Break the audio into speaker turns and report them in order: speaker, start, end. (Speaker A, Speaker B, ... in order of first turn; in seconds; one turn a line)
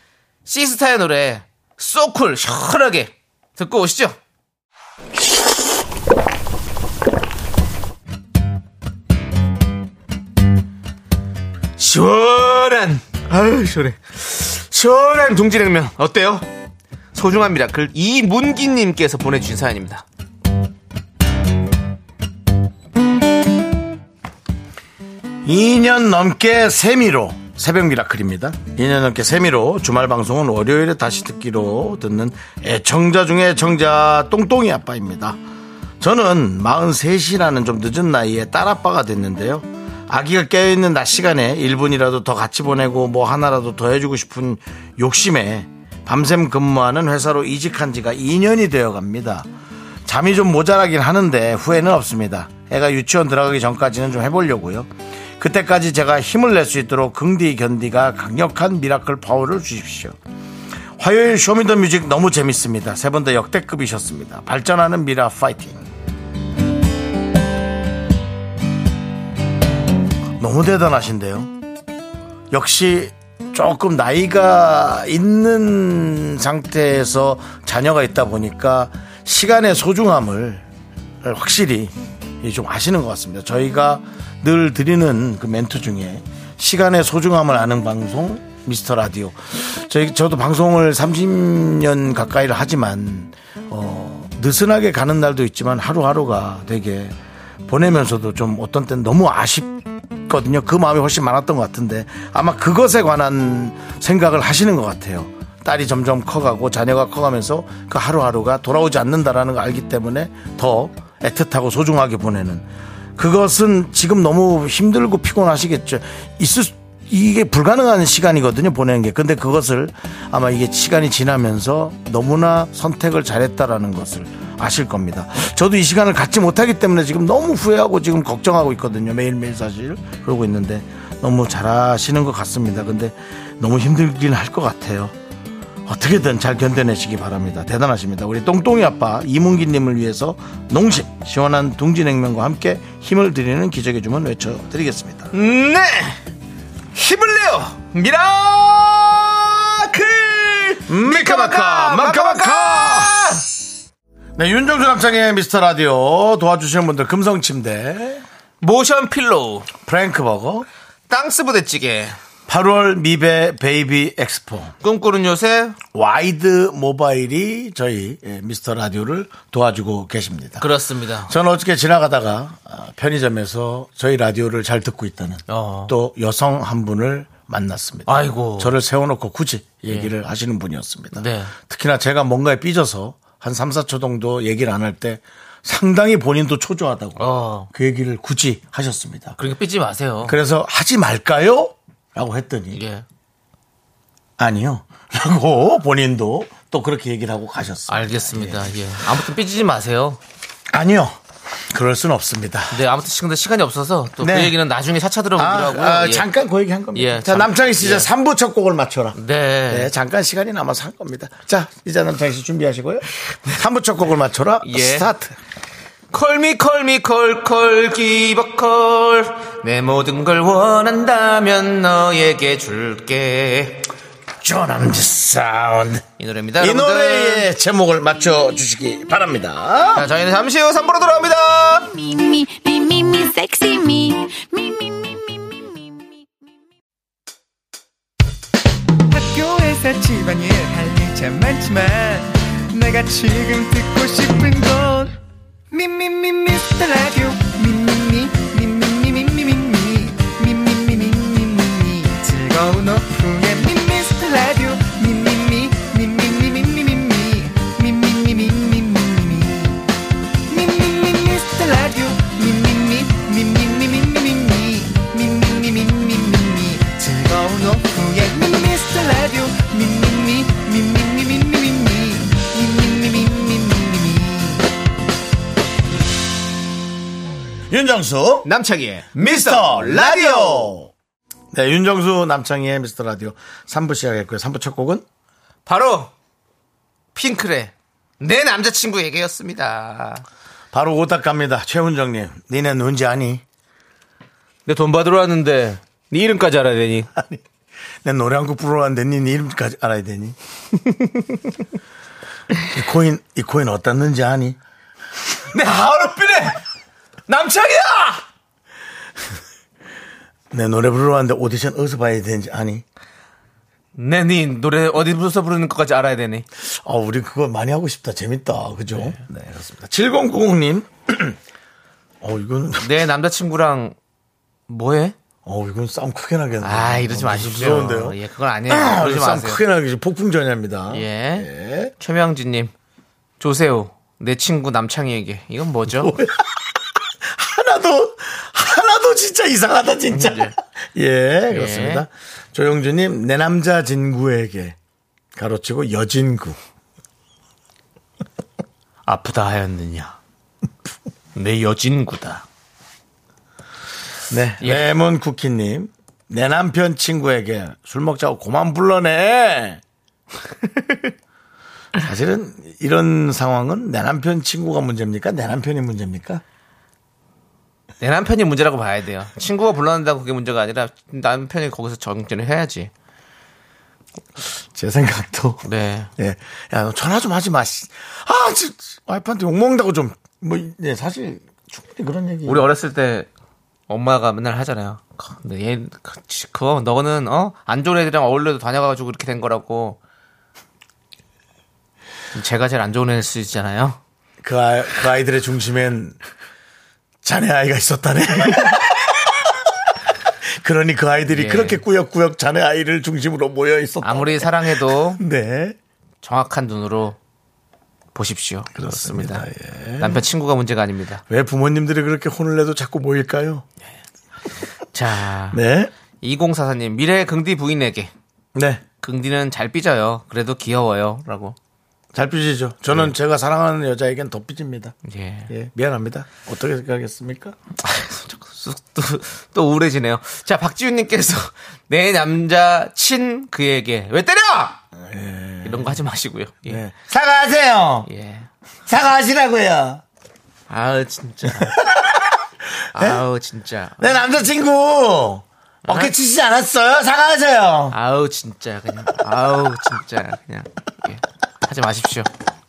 Speaker A: 0.5-4.2
Speaker A: 11.8-16.5
Speaker A: 17.1-20.0
Speaker B: 25.4-35.4
Speaker B: 36.0-49.5
Speaker B: 50.0-60.2
Speaker B: 61.0-65.9
Speaker B: 70.4-71.5
Speaker B: 72.5-80.7
Speaker B: 81.2-112.7
Speaker B: 113.2-135.1
Speaker B: 135.8-145.3
Speaker A: 145.3-146.2
Speaker A: 146.9-153.4
Speaker B: 150.9-153.2
Speaker B: 154.3-158.2
Speaker A: 158.6-159.7
Speaker B: 159.8-160.7
Speaker A: 161.1-162.2
Speaker B: 162.5-164.7
Speaker A: 164.8-165.8
Speaker B: 165.9-170.7
Speaker A: 170.6-171.3
Speaker B: 171.3-189.4
Speaker A: 175.5-175.9
Speaker A: 178.1-178.8
Speaker A: 181.1-181.5
Speaker A: 187.2-187.7
Speaker A: 189.4-190.3
Speaker B: 190.2-192.8
Speaker A: 192.7-193.0
Speaker B: 194.4-198.7
Speaker A: 197.9-200.2
Speaker B: 200.7-201.2
Speaker B: 201.7-202.8
Speaker A: 202.7-206.2
Speaker B: 204.2-204.6
Speaker B: 205.4-209.2
Speaker A: 206.9-208.1
Speaker A: 209.1-209.9
Speaker B: 209.7-215.3
Speaker A: 214.6-215.1
Speaker A: 216.1-223.8
Speaker B: 224.4-226.0
Speaker A: 226.2-227.5
Speaker B: 226.6-230.1
Speaker A: 229.9-231.9
Speaker C: 231.8-236.1
Speaker D: 239.1-245.2
Speaker D: 245.7-259.8
Speaker D: 260.5-274.6
Speaker B: 277.7-278.5
Speaker A: 278.4-280.7
Speaker B: 279.1-280.9
Speaker B: 281.5-285.0
Speaker A: 285.6-286.1
Speaker A: 287.1-290.2
Speaker B: 290.7-293.4
Speaker A: 294.6-297.1
Speaker B: 297.1-297.4
Speaker B: 298.0-300.4
Speaker B: 302.7-304.6
Speaker A: 305.5-306.6
Speaker A: 307.3-308.2
Speaker B: 310.5-312.8
Speaker A: 313.9-316.4
Speaker B: 316.6-321.4
Speaker B: 322.2-322.9
Speaker A: 322.8-323.9
Speaker A: 324.7-325.1
Speaker B: 325.4-331.9
Speaker A: 326.6-329.6
Speaker A: 330.9-332.7
Speaker A: 333.4-336.1
Speaker B: 335.9-344.8
Speaker A: 340.1-340.5
Speaker A: 341.5-342.0
Speaker B: 345.3-346.6
Speaker A: 349.1-350.1
Speaker A: 351.3-352.4
Speaker B: 354.3-359.8
Speaker A: 354.6-354.9
Speaker B: 362.0-366.4
Speaker A: 368.0-372.9
Speaker B: 374.4-382.6
Speaker A: 375.6-376.1
Speaker A: 382.4-383.3
Speaker A: 383.9-390.0
Speaker A: 392.3-394.0
Speaker B: 394.4-396.2
Speaker B: 397.2-399.6
Speaker B: 400.4-405.8
Speaker A: 401.3-401.8
Speaker A: 404.0-405.2
Speaker A: 406.2-407.2
Speaker A: 408.1-409.5
Speaker B: 408.7-410.2
Speaker A: 410.0-411.2
Speaker B: 411.3-413.6
Speaker A: 414.9-415.6
Speaker B: 415.5-415.9
Speaker A: 416.2-418.1
Speaker B: 418.5-418.8
Speaker A: 419.0-421.6
Speaker B: 422.1-424.9
Speaker A: 425.0-425.5
Speaker B: 425.5-427.6
Speaker A: 427.8-434.8
Speaker B: 434.9-436.0
Speaker A: 435.6-436.8
Speaker B: 436.6-438.1
Speaker A: 438.1-438.5
Speaker B: 438.9-440.0
Speaker A: 440.7-441.8
Speaker B: 441.6-442.2
Speaker A: 442.9-444.2
Speaker B: 442.9-443.2
Speaker B: 444.0-447.9
Speaker A: 445.8-446.1
Speaker A: 447.9-452.3